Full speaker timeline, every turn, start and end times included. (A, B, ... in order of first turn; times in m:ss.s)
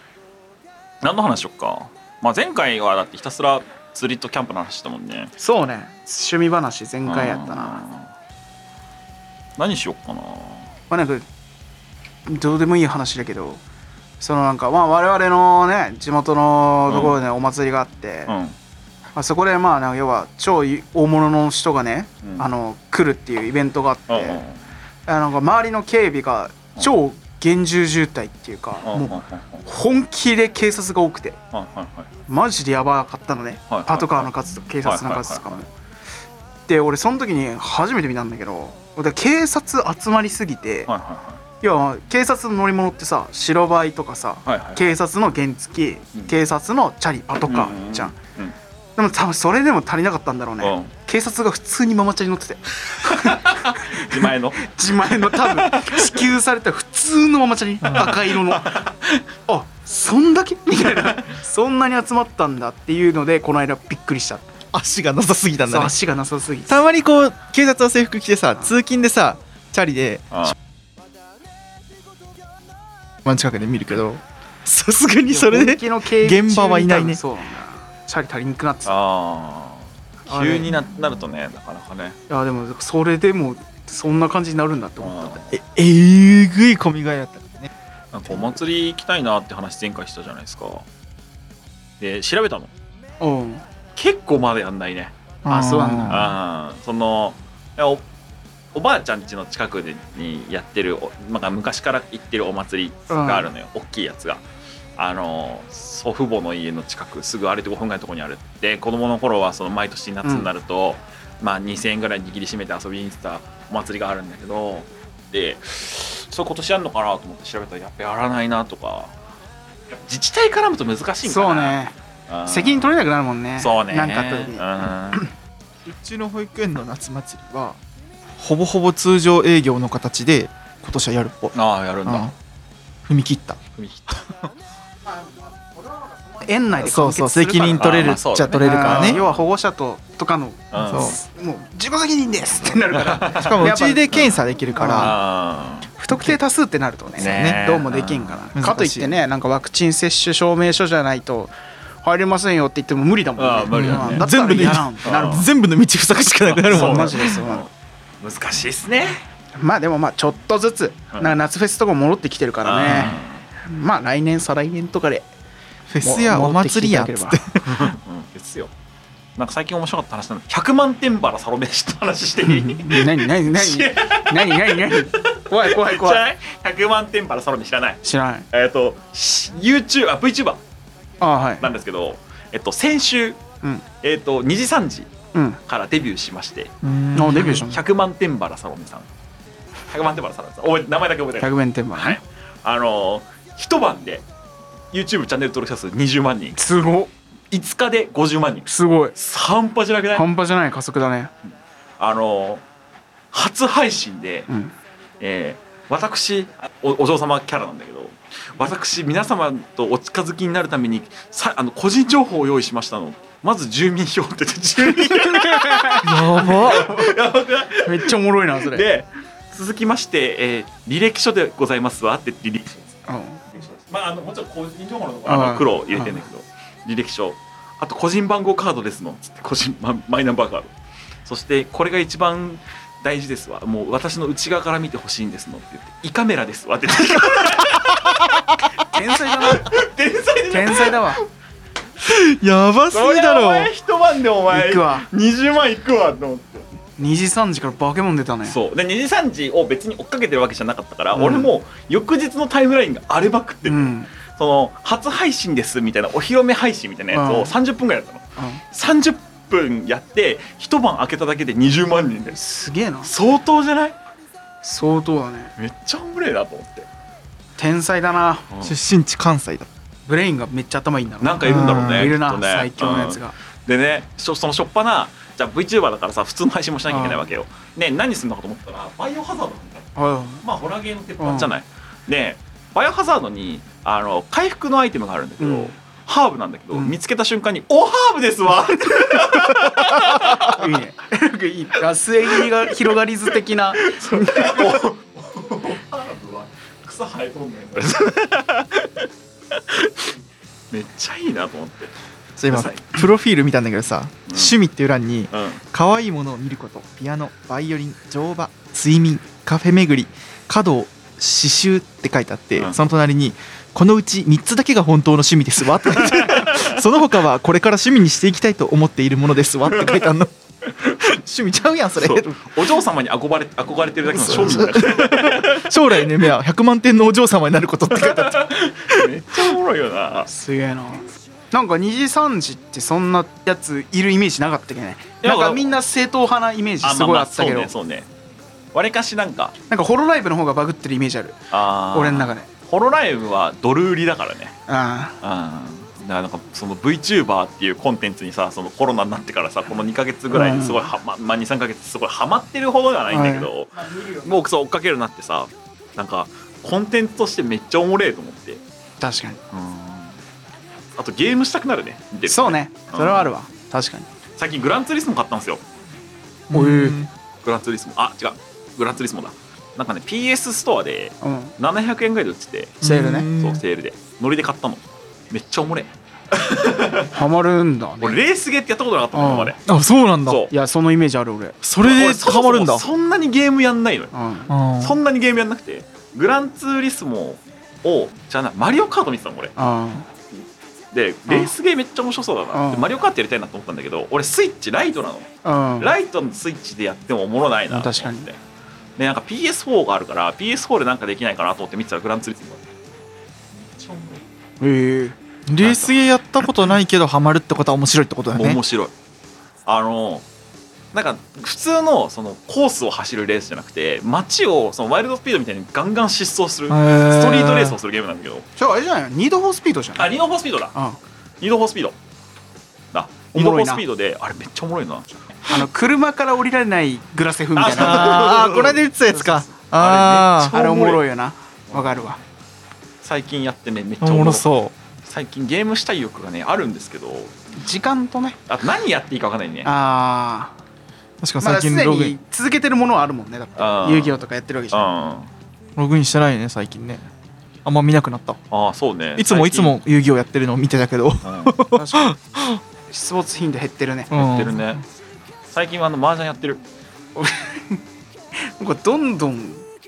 0:01.0-0:05.3 A
0:05.4-0:07.8 B
0:07.1-0:08.1 A
0:09.6-0:10.7 A
0:10.9-0:11.2 B
0:12.3-0:13.6 B
0:14.2-0:18.3 B
0:16.9-0:17.2 A
0:18.3-0:18.6 A
0:19.2-0:24.4 B
0:24.1-0:24.6 A
0:25.1-0:31.4 B
0:28.8-0:29.6 A
0:31.5-0:32.1 A
0:32.3-0:35.7 B
0:33.7-0:34.3 A
0:34.8-0:35.4 A
0:36.7-0:40.9 B
0:40.9-0:41.4 A
0:41.6-0:48.2 B
0:44.4-0:44.9 A
0:47.5-0:48.6 A
0:49.0-0:58.8 B
0:50.6-0:50.9 A
0:53.0-0:54.6 A
0:55.1-0:56.3 A
0:57.8-0:58.2 C
0:57.9-0:59.2 A
0:59.5-1:04.4 B
1:00.9-1:01.2 A
1:04.7-1:05.9 C
1:05.7-1:06.8 B
1:06.7-1:10.6 C
1:13.2-1:17.2 C
1:15.3-1:19.0 B
1:18.8-1:22.2 A
1:20.3-1:20.8 B
1:22.3-1:25.5 B
1:25.0-1:25.5 A
1:25.5-1:27.7 C
1:28.1-1:30.8 A
1:32.0-1:32.7 A
1:33.2-1:33.6 B
1:34.0-1:35.1 A
1:35.4-1:36.3 B
1:35.4-1:36.3 C
1:36.1-1:38.0 A
1:38.7-1:44.4 A
1:43.1-1:43.5 B
1:45.0-1:59.1 A
1:50.2-1:50.5 B
2:00.1-2:01.8 A
2:01.2-2:02.0 B
2:02.3-2:03.0 A
2:02.5-2:05.3 B
2:03.6-2:05.2 A
2:05.8-2:07.8 C
2:08.4-2:12.3 C
2:11.5-2:12.3 A
2:13.1-2:13.6 C
2:13.8-2:14.2 A
2:15.1-2:18.0 B
2:16.8-2:19.2 C
2:17.8-2:19.4 A
2:18.6-2:24.1 B
2:20.7-2:21.2 A
2:20.8-2:21.2 C
2:22.9-2:25.9 A
2:23.4-2:25.2 C
2:24.7-2:25.2 B
2:26.0-2:35.4 B
2:26.1-2:26.4 C
2:27.2-2:27.6 C
2:27.2-2:28.4 A
2:28.6-2:29.2 C
2:33.4-2:34.3 A
2:33.7-2:37.4 C
2:35.0-2:35.5 A
2:36.5-2:37.7 A
2:36.7-2:37.7 B
2:38.2-2:39.2 A
2:39.6-2:45.3 B
2:42.6-2:43.5 A
2:45.9-2:47.9 C
2:46.0-2:47.4 B
2:47.7-2:48.7 A
2:49.4-3:00.6 A
2:52.4-2:56.3 B
2:58.0-2:58.5 B
3:01.2-3:01.7 B
3:01.6-3:03.4 A
3:04.0-3:05.1 A
3:05.3-3:05.6 B
3:05.7-3:09.1 A
3:06.8-3:07.6 C
3:07.1-3:07.8 B
3:09.9-3:14.2 A
3:11.4-3:12.2 B
3:14.9-3:16.6 A
3:16.6-3:17.1 B
3:17.5-3:20.3 A
3:18.7-3:19.1 B
3:20.1-3:21.3 B
3:22.0-3:22.6 A
3:23.3-3:24.5 A
3:24.5-3:24.8 B
3:25.2-3:42.9 A
3:34.9-3:36.0 B
3:36.0-3:37.0 C
3:36.7-3:37.1 B
3:37.8-3:38.8 B
3:43.1-3:43.4 B
3:43.5-3:50.7 A
3:45.3-3:46.2 B
3:51.3-3:58.2 A
3:57.8-3:58.3 C
3:58.8-3:59.8 B
3:59.4-4:01.2 A
4:00.5-4:01.2 B
4:02.0-4:03.7 C
4:02.9-4:06.7 A
4:04.5-4:05.1 B
4:07.0-4:08.6 B
4:08.4-4:22.4 A
4:11.1-4:11.5 B
4:13.6-4:14.1 B
4:17.1-4:17.5 B
4:18.4-4:18.6 B
4:22.3-4:23.1 B
4:23.0-4:24.0 A
4:24.6-4:25.5 B
4:25.6-4:26.9 A
4:27.6-4:28.5 B
4:28.5-4:28.8 A
4:28.6-4:29.7 C
4:30.1-4:33.3 B
4:31.2-4:39.9 A
4:31.4-4:32.2 C
4:36.9-4:37.3 B
4:40.0-4:40.4 B
4:40.4-4:50.7 A
4:41.2-4:41.5 B
4:45.4-4:45.7 B
4:48.9-4:49.2 B
4:50.3-4:54.8 B
4:52.3-4:52.7 A
4:53.8-5:00.2 A
5:00.7-5:01.9 A
5:02.4-5:20.3 C
5:02.5-5:03.0 A
5:04.3-5:04.6 A
5:05.3-5:05.6 A
5:15.8-5:16.8 A
5:19.7-5:20.1 A
5:21.0-5:22.7 C
5:21.9-5:26.3 A
5:24.1-5:29.1 C
5:27.9-5:30.3 A
5:30.3-5:37.7 B
5:35.2-5:35.8 A
5:36.8-5:38.1 A
5:38.7-5:39.5 A
5:39.7-5:41.4 B
5:41.5-5:44.6 A
5:41.9-5:42.5 B
5:44.7-5:45.2 B
5:45.2-5:58.6 A
5:50.3-5:50.9 B
5:53.1-5:54.3 B
5:59.0-5:59.4 B
5:59.5-6:00.2 A
6:01.0-6:03.3 A
6:02.3-6:04.1 B
6:04.4-6:05.6 A
6:06.5-6:07.1 C
6:06.5-6:07.0 B
6:07.4-6:12.8 A
6:11.2-6:11.6 B
6:12.8-6:13.3 B
6:12.8-6:13.6 C
6:13.4-6:17.1 A
6:17.1-6:18.2 B
6:18.0-6:19.6 A
6:19.1-6:19.6 B
6:19.7-6:20.4 C
6:20.3-6:20.5 A
6:20.5-6:21.6 B
6:21.6-6:22.9 C
6:21.8-6:24.1 A
6:24.1-6:24.5 B
6:24.5-6:25.0 C
6:24.8-6:29.5 A
6:29.6-6:30.1 B
6:30.9-6:38.4 A
6:31.3-6:31.5 B
6:32.5-6:33.0 B
6:35.4-6:36.0 B
6:37.7-6:38.3 B
6:39.0-6:42.6 A
6:43.6-6:44.2 A
6:44.6-6:45.2 B
6:45.5-6:48.6 C
6:45.6-6:45.9 A
6:48.3-6:48.9 A
6:49.7-6:50.2 A
6:50.9-6:58.4 A
6:56.7-6:57.8 C
6:58.6-7:00.1 B
7:00.0-7:00.7 A
7:01.4-7:02.0 A
7:02.9-7:05.6 A
7:03.3-7:03.8 B
7:05.4-7:09.5 B
7:07.6-7:08.8 A
7:07.7-7:10.6 C
7:09.8-7:11.0 A
7:10.4-7:12.2 B
7:11.7-7:12.2 A
7:13.0-7:14.5 A
7:14.0-7:14.7 C
7:15.0-7:17.4 A
7:17.6-7:18.4 B
7:18.5-7:19.7 A
7:19.6-7:20.6 B
7:21.2-7:22.2 C
7:21.4-7:24.9 B
7:23.6-7:25.3 A
7:25.8-7:27.1 C
7:27.6-7:28.4 C
7:28.5-7:29.8 A
7:29.2-7:32.6 C
7:31.2-7:31.6 A
7:31.7-7:32.2 B
7:32.9-7:34.1 B
7:34.1-7:34.8 C
7:34.1-7:34.8 A
7:35.5-7:36.6 A
7:37.2-7:37.8 B
7:38.5-7:39.6 B